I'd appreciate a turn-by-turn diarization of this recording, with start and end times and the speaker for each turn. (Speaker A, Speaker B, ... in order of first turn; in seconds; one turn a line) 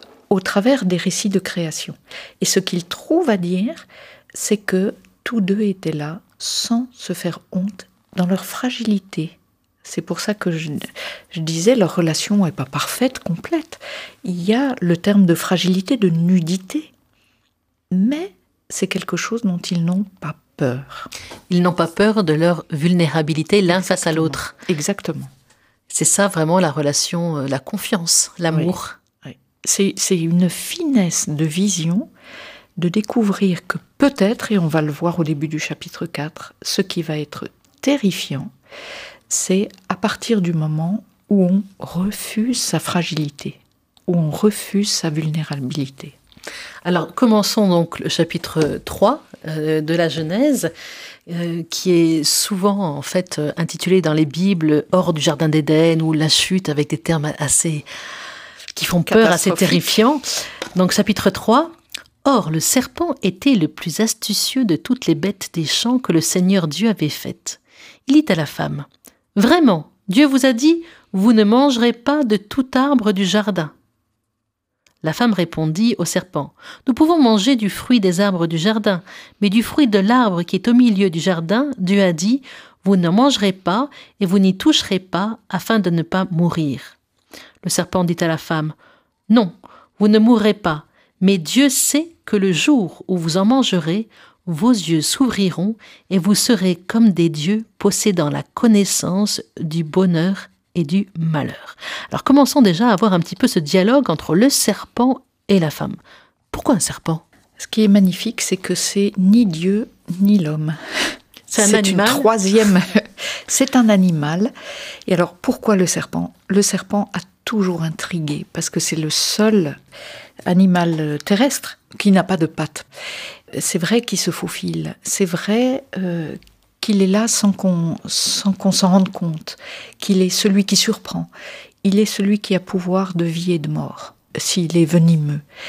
Speaker A: 0.3-16.9
Speaker A: 17.9-21.1
Speaker B: 21.5-24.5
Speaker A: 23.7-25.3
Speaker B: 25.9-29.0
Speaker A: 28.5-32.1
Speaker A: 32.8-38.5
Speaker A: 39.3-46.2
Speaker B: 46.9-50.7
Speaker B: 51.3-57.9
Speaker B: 58.8-60.2
Speaker A: 59.1-60.0
Speaker B: 60.8-73.7
Speaker B: 75.0-87.0
Speaker B: 87.6-88.8
Speaker B: 89.3-106.0
Speaker B: 106.5-107.2
Speaker A: 107.6-114.5
Speaker B: 111.5-112.3
Speaker A: 115.1-119.8
Speaker A: 120.5-122.9
Speaker A: 123.5-131.3
Speaker A: 131.8-135.4